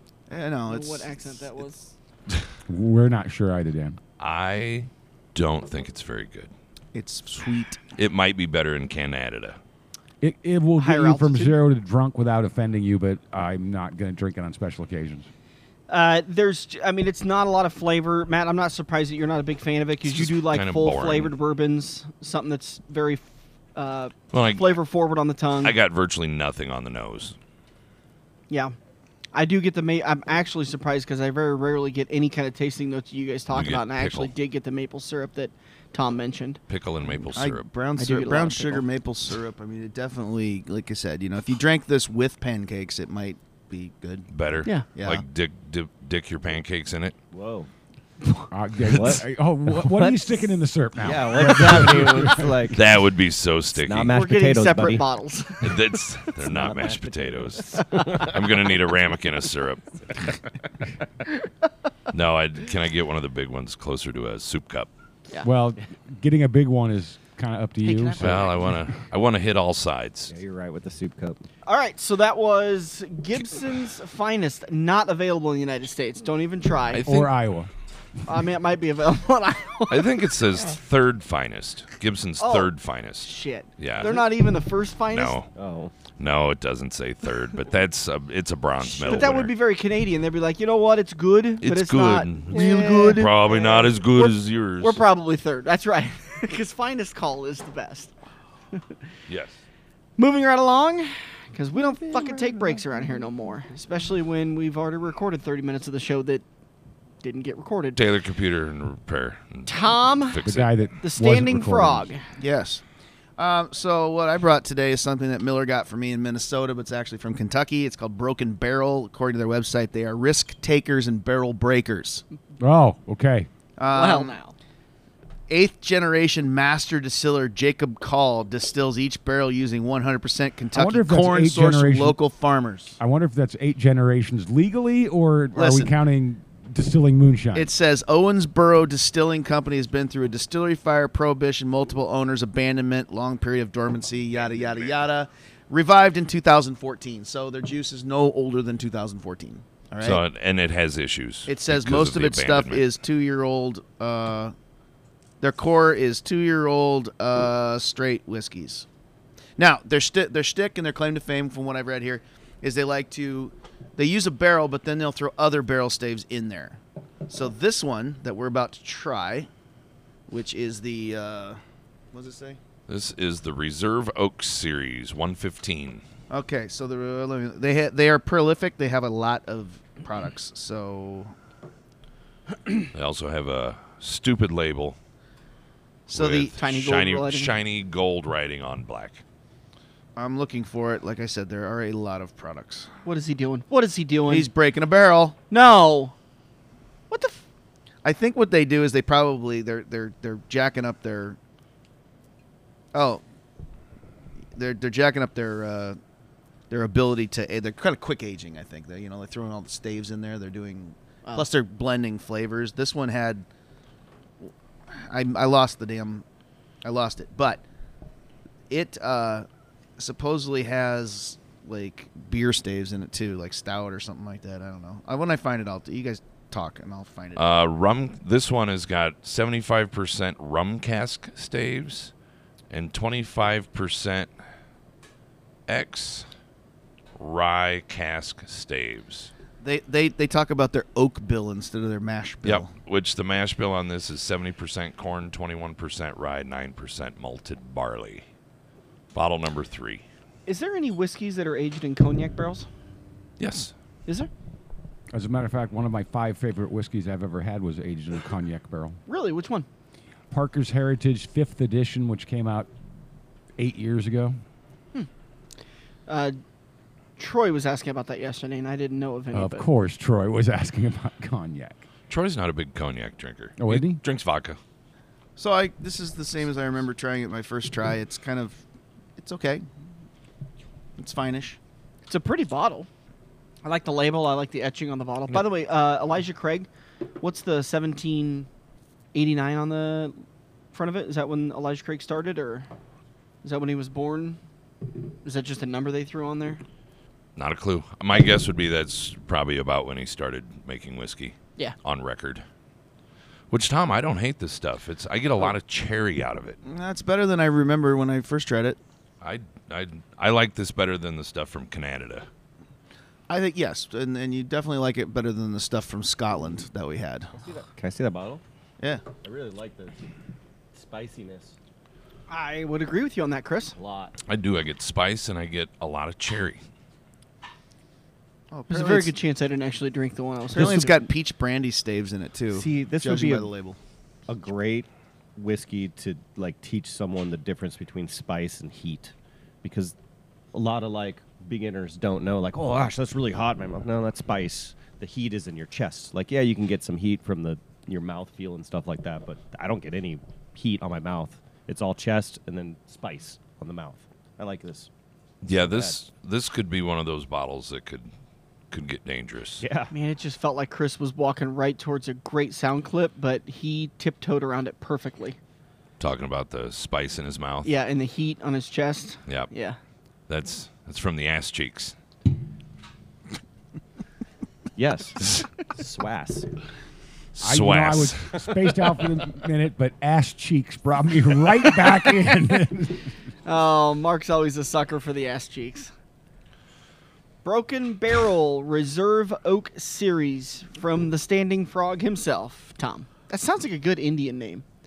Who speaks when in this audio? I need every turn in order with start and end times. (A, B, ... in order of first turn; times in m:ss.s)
0:00.3-0:01.5 A
0:00.7-0:02.0 B
0:02.7-0:04.0 C
0:04.2-0:06.5 D
0:06.9-0:07.8 A
0:07.9-0:09.6 D
0:10.2-0:15.3 C
0:10.8-0:11.6 B
0:15.9-0:25.8 B
0:20.0-0:21.3 D
0:24.3-0:24.8 D
0:25.6-0:27.4 D
0:28.5-0:28.8 B
0:29.3-0:36.6 B
0:33.5-0:34.3 D
0:36.7-0:37.6 D
0:37.3-0:44.3 A
0:38.0-0:38.8 B
0:44.3-0:47.2 D
0:44.8-0:45.2 A
0:47.3-0:47.7 E
0:48.5-0:52.8 C
0:48.9-0:52.9 E
0:48.9-0:49.2 D
0:52.7-0:54.2 D
0:53.8-0:55.0 E
0:54.1-0:56.0 B
0:55.6-1:00.4 D
0:56.4-0:58.4 E
1:02.1-1:04.9 D
1:05.4-1:08.5 C
1:08.2-1:10.3 D
1:10.3-1:11.4 E
1:11.7-1:17.1 B
1:16.9-1:17.3 D
1:17.0-1:17.7 C
1:18.3-1:20.2 B
1:19.9-1:24.3 D
1:22.4-1:25.4 B
1:25.1-1:25.5 D
1:25.6-1:25.9 E
1:26.2-1:29.5 D
1:28.8-1:38.1 B
1:31.6-1:35.0 D
1:32.5-1:33.3 A
1:39.3-1:39.6 D
1:40.2-1:46.4 B
1:42.1-1:42.8 A
1:47.2-1:48.0 B
1:48.0-1:50.7 D
1:49.7-1:50.4 B
1:50.4-1:52.1 C
1:51.0-1:52.2 B
1:52.4-1:52.8 A
1:53.4-2:02.2 A
2:02.6-2:03.5 C
2:03.8-2:04.4 A
2:03.9-2:04.6 B
2:05.5-2:13.0 A
2:10.7-2:12.2 C
2:13.0-2:17.7 C
2:15.5-2:15.9 A
2:17.5-2:30.2 A
2:30.0-2:32.9 D
2:31.5-2:34.5 A
2:35.4-2:38.9 A
2:39.6-2:49.5 A
2:50.3-2:51.6 A
2:52.1-2:52.6 A
2:52.9-2:56.0 D
2:56.3-3:01.4 A
3:02.9-3:05.0 D
3:06.1-3:06.5 A
3:06.1-3:09.2 D
3:06.6-3:07.5 B
3:10.2-3:12.9 A
3:13.0-3:14.5 B
3:14.3-3:15.4 A
3:15.5-3:16.2 B
3:17.1-3:17.4 B
3:18.0-3:21.4 A
3:22.9-3:23.2 A
3:24.6-3:26.0 A
3:26.7-3:33.5 A
3:34.4-3:36.2 A
3:36.8-3:37.6 A
3:38.7-3:39.5 A
3:40.0-3:47.4 A
3:47.4-3:52.1 D
3:52.7-3:54.3 D
3:55.7-3:56.3 D
3:57.2-3:59.3 D
3:59.6-4:02.7 A
4:02.4-4:08.2 D
4:09.1-4:10.0 D
4:10.5-4:12.7 B
4:13.4-4:13.7 D
4:15.1-4:19.0 C
4:19.1-4:19.7 B
4:20.3-4:22.7 C
4:23.6-4:24.4 C
4:26.1-4:26.4 B
4:27.2-4:29.7 B
4:29.3-4:31.8 C
4:32.1-4:34.6 D
4:33.6-4:34.0 C
4:35.4-4:38.6 A
4:39.2-4:39.6 A
4:41.0-4:41.6 A
4:42.1-4:42.9 B
4:43.6-4:46.7 B
4:47.2-4:48.5 B
4:49.1-4:50.2 B
4:50.7-4:52.7 B
4:53.4-4:54.4 B
4:55.2-4:56.6 B
4:57.4-5:02.4 D
5:03.5-5:06.6 D
5:06.6-5:08.8 A
5:09.2-5:12.3 D
5:13.3-5:17.3 A
5:17.3-5:18.4 E
5:19.2-5:20.0 E
5:20.7-5:21.6 E
5:22.3-5:23.8 B
5:23.8-5:24.2 E
5:24.3-5:26.6 D
5:28.5-5:29.1 A
5:28.7-5:31.0 B
5:30.5-5:33.8 A
5:32.5-5:33.5 E
5:34.3-5:40.0 E
5:40.5-5:54.9 E
5:55.4-5:58.1 D
5:55.5-5:56.0 E
5:58.7-5:59.7 D
5:59.6-5:59.9 E
5:59.9-6:05.4 B
6:06.0-6:07.7 D
6:07.6-6:09.8 B
6:10.3-6:12.0 D
6:14.8-6:16.5 E
6:17.3-6:18.3 D
6:17.4-6:23.1 C
6:23.4-6:25.9 B
6:27.4-6:34.6 B